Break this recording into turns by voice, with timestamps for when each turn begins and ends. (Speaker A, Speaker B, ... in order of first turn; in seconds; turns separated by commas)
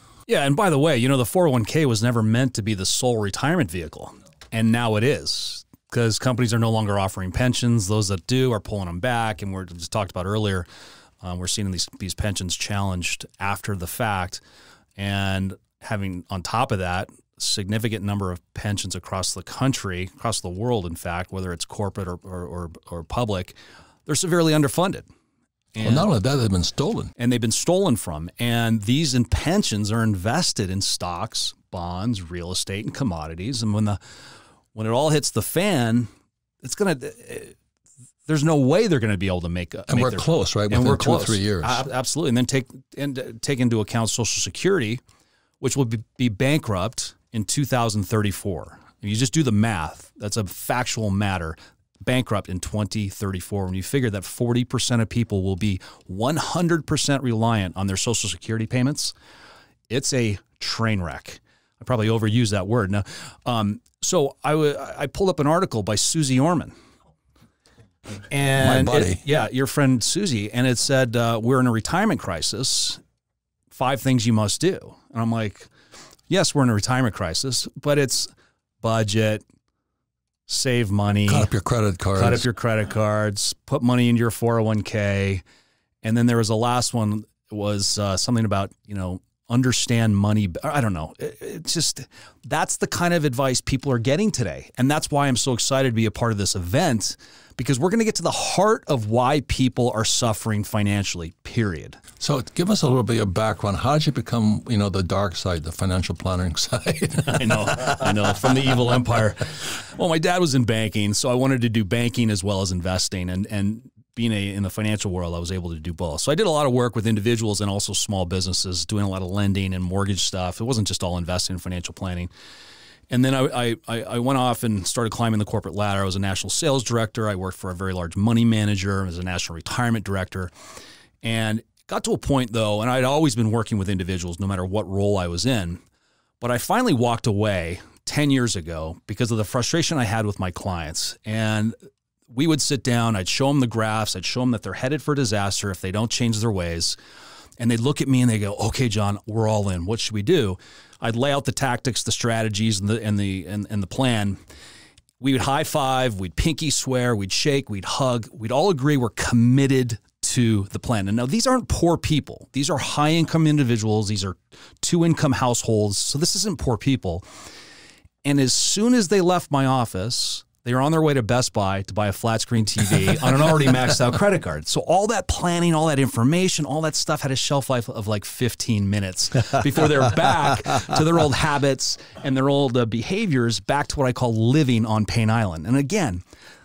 Speaker A: 0.3-10.7, Speaker A: 11.2-14.4, Speaker A: 15.0-23.6, Speaker A: 24.1-25.1, Speaker A: 25.8-26.1, Speaker B: 25.8-27.1, Speaker A: 27.2-34.0, Speaker A: 34.8-36.1, Speaker A: 36.6-37.5, Speaker A: 38.3-45.0, Speaker B: 39.9-41.9, Speaker A: 45.6-59.1, Speaker A: 59.9-66.7, Speaker A: 68.3-73.0, Speaker B: 68.6-69.2, Speaker A: 73.7-75.7, Speaker A: 76.3-78.3, Speaker A: 78.8-79.4, Speaker A: 80.5-81.5, Speaker B: 81.3-82.5, Speaker A: 82.2-85.4, Speaker A: 86.0-102.0, Speaker B: 102.2-108.7, Speaker A: 107.3-122.3, Speaker A: 123.1-130.5, Speaker A: 131.2-135.8, Speaker A: 136.4-141.8, Speaker A: 142.3-147.0, Speaker A: 147.6-154.4, Speaker A: 155.2-167.2, Speaker A: 168.2-186.2